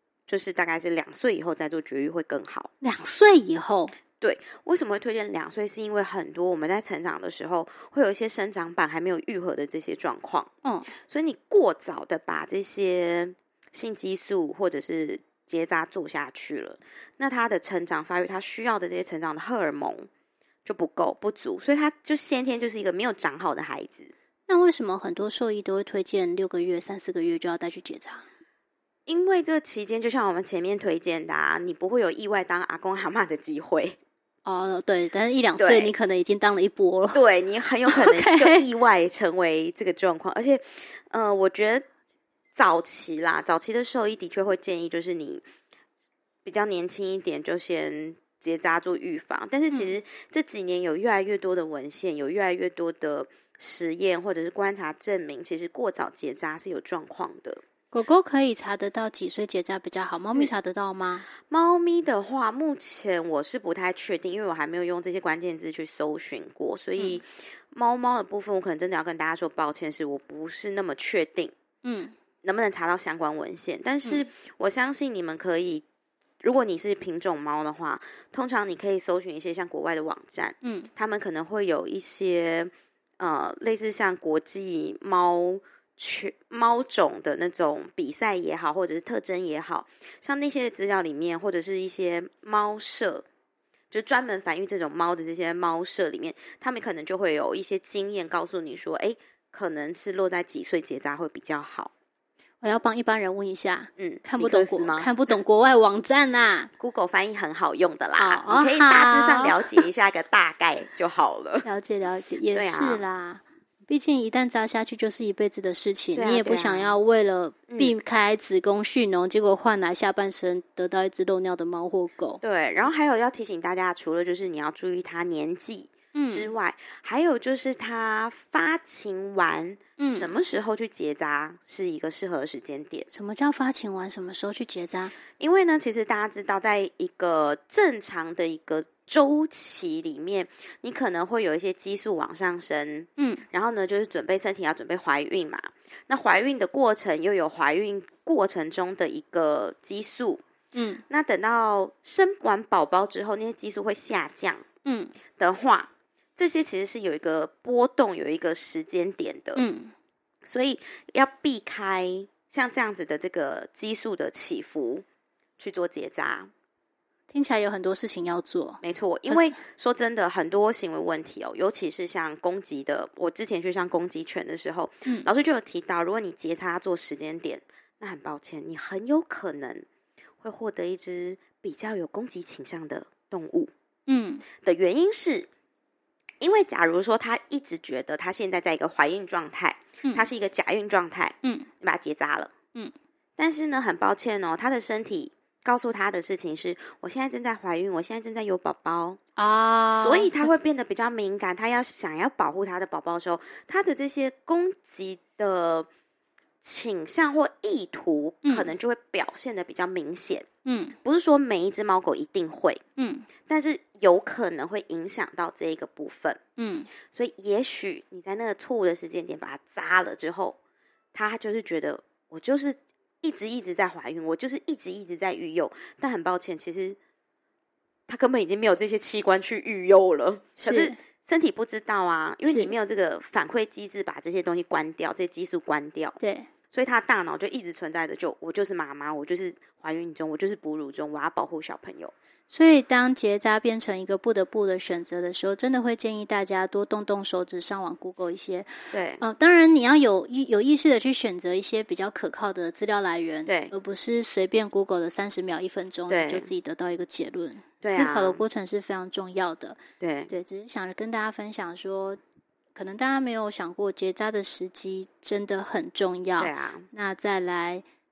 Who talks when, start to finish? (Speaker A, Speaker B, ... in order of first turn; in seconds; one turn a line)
Speaker A: 0.3-2.7
Speaker B: 2.8-3.9
Speaker A: 4.2-20.1
Speaker B: 10.6-10.9
Speaker A: 20.6-24.1
Speaker B: 24.5-28.2
Speaker A: 29.1-34.0
Speaker B: 34.4-37.2
Speaker A: 35.6-35.9
Speaker A: 37.1-41.9
Speaker B: 37.8-38.6
Speaker A: 42.5-45.4
Speaker A: 46.4-57.6
Speaker B: 57.9-61.3
Speaker A: 61.4-71.5
Speaker B: 71.8-72.1
Speaker A: 72.4-75.8
Speaker A: 76.4-93.2
Speaker B: 80.6-80.9
Speaker A: 93.9-101.9
Speaker B: 102.6-106.7
Speaker A: 104.0-105.1
Speaker A: 106.8-111.7
Speaker B: 108.2-109.8
Speaker B: 111.6-122.4
Speaker A: 112.5-113.0
Speaker A: 116.2-117.0
Speaker A: 117.7-117.9
Speaker A: 122.4-133.1
Speaker B: 126.1-126.5
Speaker B: 130.0-130.3
Speaker B: 133.1-135.1
Speaker A: 135.3-150.4
Speaker B: 143.2-143.4
Speaker B: 150.7-151.0
Speaker A: 151.1-154.6
Speaker B: 154.8-155.1
Speaker A: 155.4-159.6
Speaker B: 159.6-159.9
Speaker A: 160.4-165.0
Speaker A: 165.6-166.5
Speaker B: 167.3-169.6
Speaker A: 168.8-179.8
Speaker A: 180.4-183.7
Speaker B: 184.1-184.4
Speaker A: 184.6-185.5
Speaker A: 186.4-192.5
Speaker B: 191.4-191.7
Speaker A: 193.4-199.2
Speaker B: 199.4-200.5
Speaker A: 199.9-205.9
Speaker A: 206.6-210.5
Speaker B: 208.4-208.7
Speaker B: 210.6-210.9
Speaker A: 211.0-212.8
Speaker B: 213.0-213.3
Speaker A: 213.5-216.4
Speaker B: 216.6-216.9
Speaker A: 217.0-220.6
Speaker A: 221.1-227.0
Speaker A: 228.1-236.2
Speaker B: 230.6-230.9
Speaker B: 232.4-232.7
Speaker B: 236.2-236.5
Speaker A: 236.7-242.1
Speaker B: 242.5-262.2
Speaker A: 248.9-249.2
Speaker A: 253.4-253.7
Speaker A: 256.1-256.5
Speaker A: 257.8-258.4
Speaker A: 260.0-260.3
Speaker B: 262.7-267.8
Speaker A: 266.4-266.9